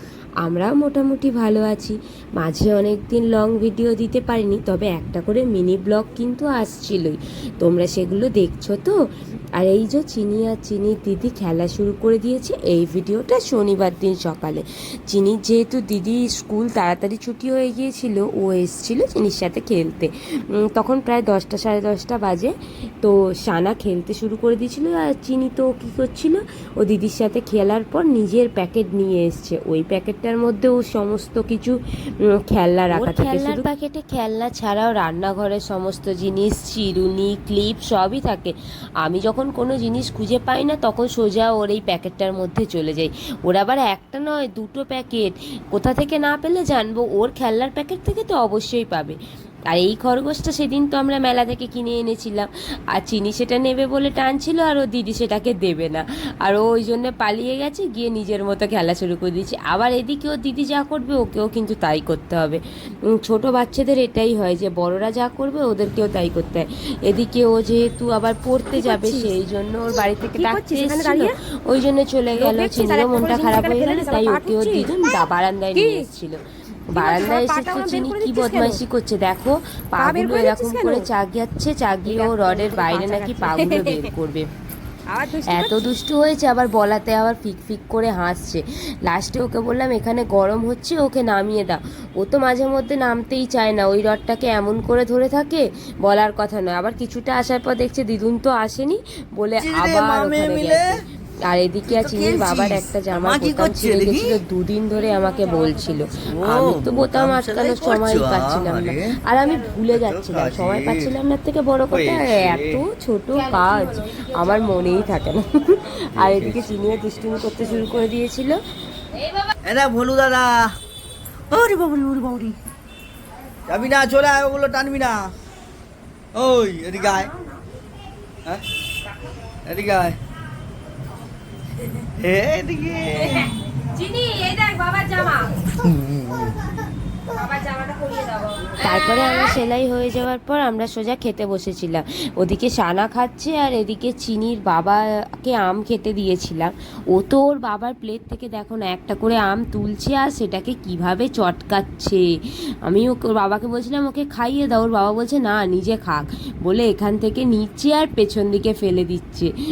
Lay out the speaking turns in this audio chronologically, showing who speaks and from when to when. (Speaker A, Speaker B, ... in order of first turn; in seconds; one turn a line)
Speaker A: 0.4-8.9
Speaker A: 9.6-20.1
Speaker A: 20.6-49.2
Speaker B: 32.9-33.6
Speaker A: 49.7-62.6
Speaker A: 63.1-84.5
Speaker B: 68.8-69.3
Speaker B: 70.3-71.3
Speaker B: 72.4-74.9
Speaker B: 75.8-76.1
Speaker B: 76.9-78.8
Speaker B: 80.0-81.1
Speaker B: 82.0-84.1
Speaker B: 85.1-86.0
Speaker A: 85.5-118.6
Speaker C: 99.6-100.9
Speaker C: 101.9-104.4
Speaker B: 105.2-106.0
Speaker C: 106.3-109.1
Speaker C: 109.9-111.1
Speaker C: 111.9-112.8
Speaker B: 113.5-114.8
Speaker C: 116.2-116.7
Speaker C: 119.6-120.7
Speaker C: 121.5-122.6
Speaker C: 123.7-125.3
Speaker C: 126.3-127.3
Speaker B: 127.1-127.3
Speaker C: 129.7-130.2
Speaker C: 132.2-133.5
Speaker B: 133.3-135.5
Speaker C: 135.8-136.6
Speaker B: 137.4-139.5
Speaker A: 138.8-152.2
Speaker A: 152.9-159.5